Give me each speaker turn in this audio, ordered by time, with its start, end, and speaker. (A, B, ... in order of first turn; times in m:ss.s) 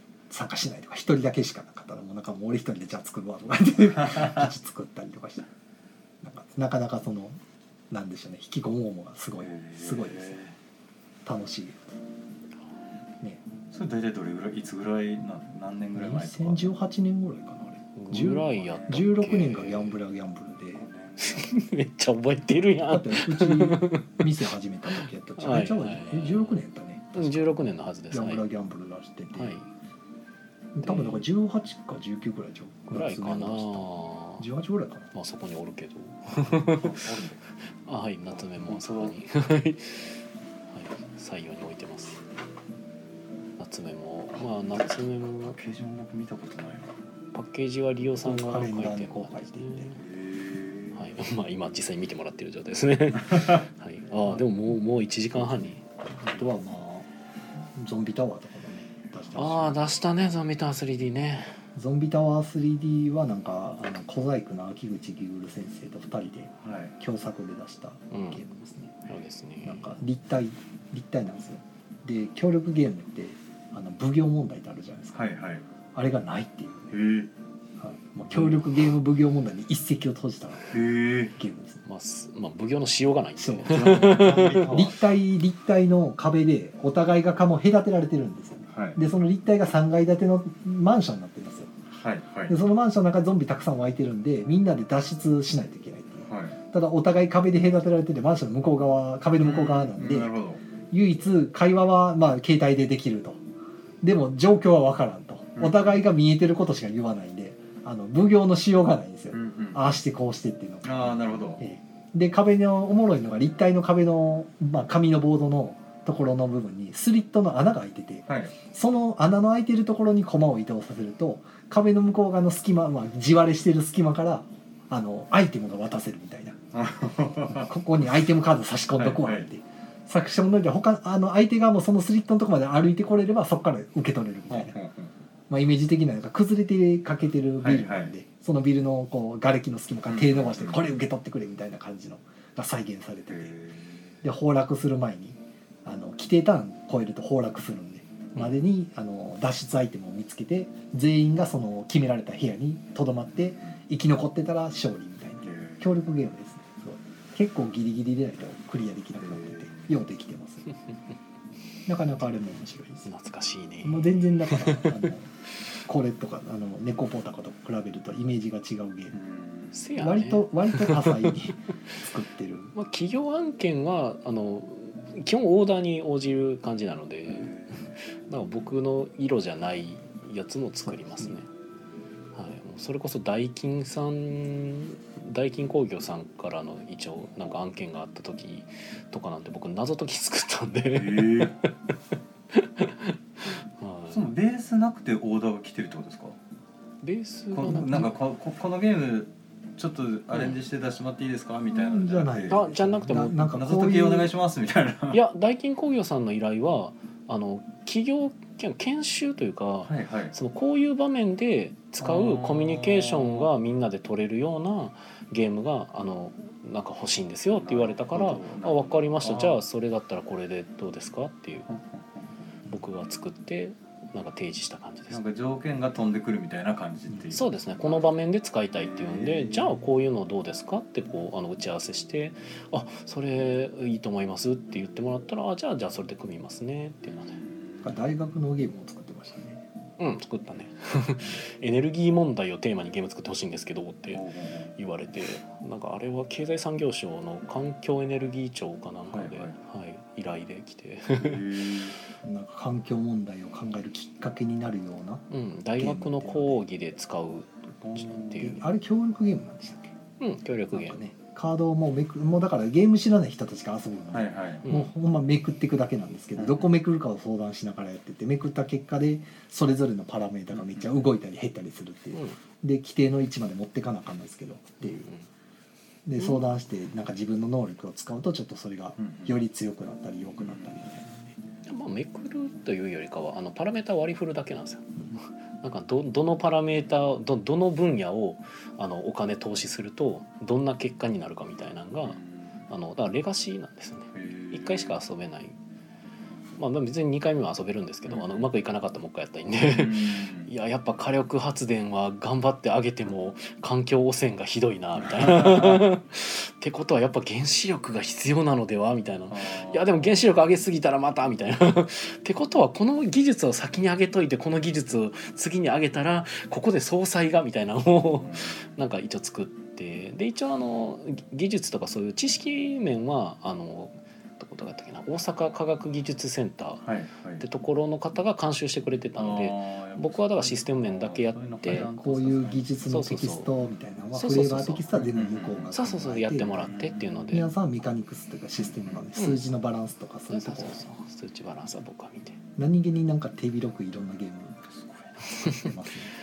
0:00.3-0:05.5 A
0:06.2-0:07.4 A
0:07.9-0:10.4 A
0:09.4-0:10.5 B
0:11.2-0:11.8 A
0:13.7-0:16.7 B
0:15.9-0:20.8 A
0:17.9-0:20.0 C
0:18.6-0:19.0 B
0:20.8-0:21.5 B
0:21.2-0:24.2 C
0:22.9-0:27.5 A
0:24.9-0:26.6 C
0:27.1-0:28.4 C
0:28.1-0:29.6 A
0:29.3-0:29.6 C
0:30.7-0:35.1 A
0:30.8-0:31.2 C
0:32.9-0:34.5 C
0:35.1-0:42.2 C
0:36.7-0:37.4 B
0:38.6-0:39.1 B
0:43.6-0:45.6 C
0:44.7-0:46.9 B
0:47.3-0:50.0 C
0:48.2-0:49.9 A
0:50.0-0:51.0 B
0:50.9-0:56.5 C
0:55.4-0:57.1 A
0:57.8-0:59.8 A
0:59.3-1:01.6 C
1:01.7-1:09.0 A
1:06.6-1:06.9 B
1:08.1-1:08.4 C
1:09.0-1:10.0 C
1:09.6-1:15.2 A
1:15.1-1:15.6 B
1:15.9-1:16.9 A
1:16.9-1:17.3 B
1:17.8-1:20.7 A
1:18.3-1:18.6 B
1:20.7-1:21.3 B
1:21.4-1:21.8 A
1:21.8-1:24.8 C
1:23.4-1:31.7 A
1:23.6-1:25.0 B
1:28.7-1:29.0 B
1:31.9-1:32.6 B
1:32.5-1:40.4 A
1:36.3-1:36.6 B
1:39.4-1:40.6 B
1:40.9-1:43.4 A
1:44.0-2:06.6 A
1:45.6-1:46.0 B
1:49.3-1:49.8 B
1:50.8-1:51.6 B
1:58.3-1:58.6 B
2:06.7-2:07.7 B
2:07.5-2:14.8 A
2:09.0-2:09.4 B
2:14.5-2:15.1 B
2:15.5-2:23.5 A
2:17.6-2:18.1 B
2:20.1-2:20.8 B
2:23.3-2:24.1 B
2:24.2-2:40.7 A
2:35.4-2:35.9 B
2:39.2-2:40.0 B
2:41.9-2:43.0 A
2:43.0-2:45.0 C
2:43.8-2:45.3 A
2:45.8-2:49.2 A
2:49.1-2:49.8 B
2:49.7-2:51.4 C
2:50.0-2:52.7 A
2:52.7-2:57.5 C
2:57.3-2:57.8 B
2:58.3-3:01.5 C
3:00.9-3:01.2 A
3:02.3-3:11.7 C
3:10.9-3:11.6 B
3:12.5-3:14.3 C
3:14.1-3:16.4 B
3:17.0-3:18.1 C
3:17.5-3:22.6 B
3:17.7-3:18.1 A
3:21.7-3:24.3 A
3:22.5-3:23.5 C
3:23.5-3:25.2 B
3:25.1-3:41.7 C
3:29.8-3:30.3 B
3:32.0-3:33.5 B
3:37.5-3:39.6 B
3:41.7-3:42.2 B
3:42.7-3:45.2 C
3:45.1-3:48.1 B
3:47.3-3:57.4 C
3:48.7-3:49.8 B
3:57.5-3:57.8 B
3:57.8-3:59.6 A
4:00.0-4:04.2 C
4:04.1-4:04.7 B
4:04.8-4:11.4 C
4:09.1-4:09.6 B
4:11.2-4:12.0 B
4:12.2-4:15.2 A
4:15.3-4:18.6 C
4:15.8-4:16.6 A
4:17.8-4:18.6 B
4:18.3-4:19.9 A
4:20.2-4:21.0 C
4:20.7-4:35.1 A
4:24.1-4:24.6 B
4:24.6-4:24.9 C
4:26.4-4:26.7 B
4:30.5-4:31.0 B
4:34.8-4:35.2 C
4:36.0-4:41.4 A
4:39.0-4:39.4 B
4:40.4-4:40.8 B
4:41.7-4:55.6 C
4:52.0-4:52.6 B
4:54.1-4:55.0 B
4:56.6-5:26.8 C
4:58.1-4:58.5 B
4:59.6-5:00.5 B
5:05.0-5:05.8 B
5:09.3-5:10.2 B
5:18.1-5:18.6 B
5:26.8-5:27.4 B
5:27.4-5:31.9 C
5:29.2-5:32.7 B
5:31.7-5:36.7 A
5:32.8-5:33.5 C
5:34.1-5:34.9 C
5:34.9-5:35.7 B
5:35.7-5:37.5 C
5:36.6-5:37.2 B
5:37.3-5:40.8 A
5:38.6-5:39.0 B
5:40.3-5:42.4 C
5:42.6-5:44.6 A
5:44.6-5:45.2 B
5:45.3-5:45.7 C
5:45.5-5:46.1 A